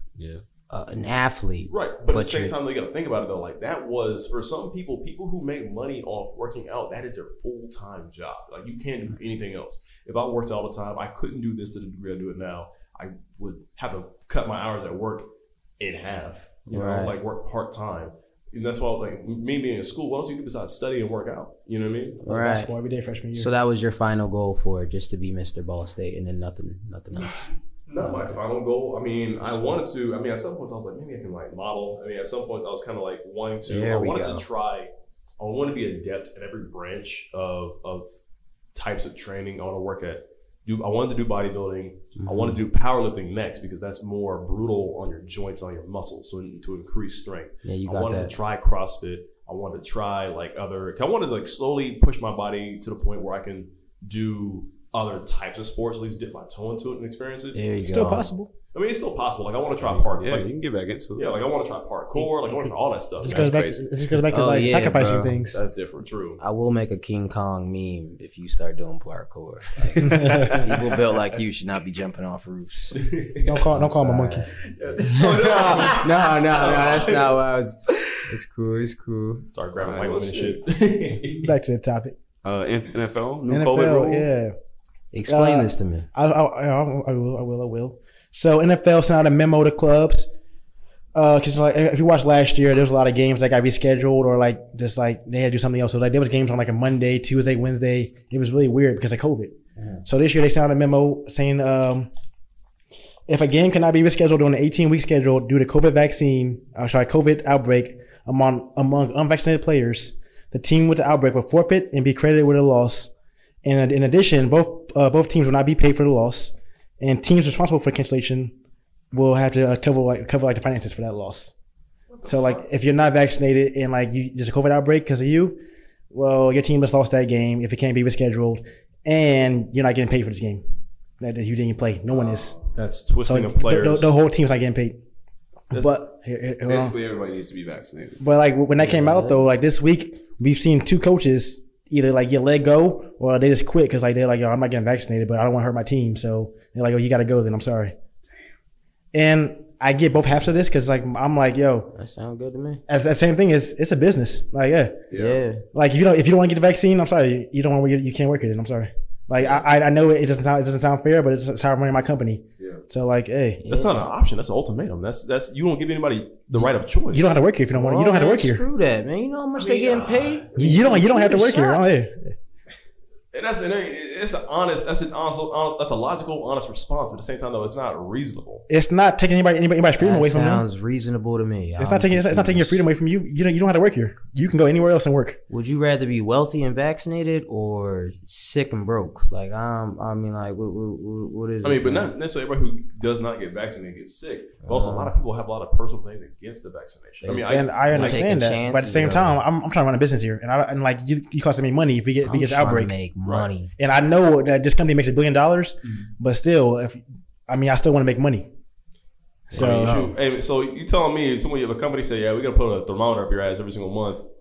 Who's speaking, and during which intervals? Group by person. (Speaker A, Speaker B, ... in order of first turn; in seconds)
Speaker A: 0.2-0.4, 59.9-61.4, 63.2-63.9, 65.5-66.1, 70.0-70.9, 79.8-80.6, 82.4-84.3, 136.7-138.2, 155.1-155.4
Speaker B: 0.7-2.5, 16.7-17.2, 22.2-22.7, 23.3-27.5, 33.6-34.5, 42.2-42.6, 47.6-48.3, 57.5-58.3, 64.3-65.4, 66.4-79.4, 85.1-86.1, 138.8-139.4, 151.9-152.8, 155.1-155.6, 163.6-164.0, 167.7-171.9, 180.0-182.8, 185.5-192.1, 194.6-195.2, 197.2-199.4, 202.2-203.7, 209.5-210.1
Speaker C: 1.7-15.3, 15.8-22.2, 27.9-38.1, 38.7-57.6, 58.7-60.5, 61.1-63.6, 66.0-66.4, 72.9-73.5, 74.6-77.3, 79.5-81.5, 122.1-122.6, 132.7-134.1, 163.7-167.4, 169.6-171.0, 173.3-178.7, 191.6-198.2, 203.2-203.5, 209.5-214.2
Speaker D: 22.2-23.5, 57.8-58.5, 62.1-65.6, 70.0-70.5, 73.4-74.5, 81.3-82.1, 83.5-84.5, 85.3-90.3, 91.1-102.1, 103.3-113.1, 113.6-118.5, 119.1-121.5, 122.2-125.6, 126.1-130.6, 131.2-132.6, 133.2-135.0, 135.7-136.9, 138.2-147.9, 149.1-151.9, 152.9-155.0, 155.7-163.6, 167.1-168.6, 170.6-172.3, 178.7-180.7, 181.8-185.4, 197.4-202.9, 203.8-208.5, 209.5-210.0